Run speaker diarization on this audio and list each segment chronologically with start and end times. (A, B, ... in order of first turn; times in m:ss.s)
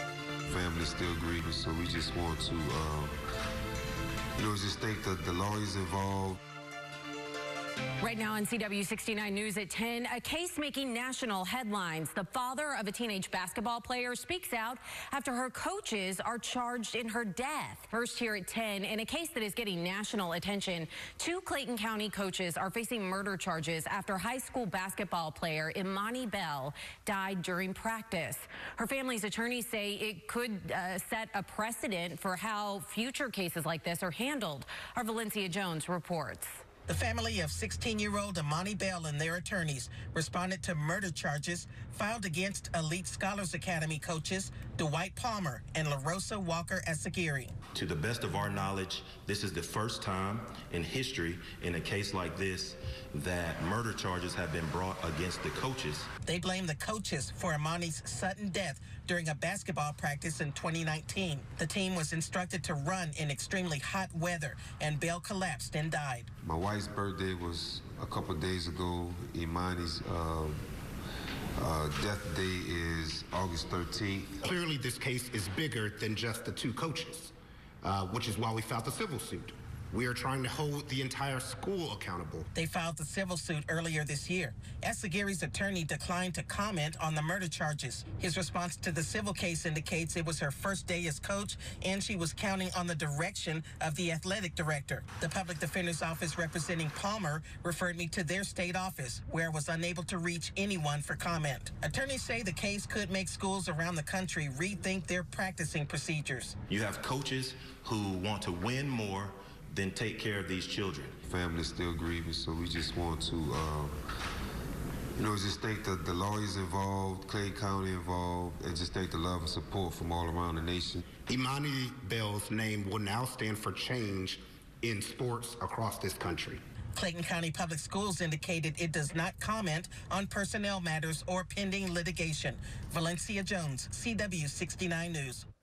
0:00.5-0:03.2 A
0:04.4-0:06.4 A
0:08.0-0:36.6 B
0:36.9-0:47.6 C
0:47.7-0:56.1 D
0:56.3-1:06.3 C
1:06.4-1:10.6 A
1:11.6-1:14.4 A
1:14.4-1:22.5 E
1:22.5-1:46.6 C
1:46.7-1:51.2 D
1:51.2-1:54.0 A
1:55.2-2:01.0 A
2:01.3-2:06.6 E
2:07.0-2:15.4 C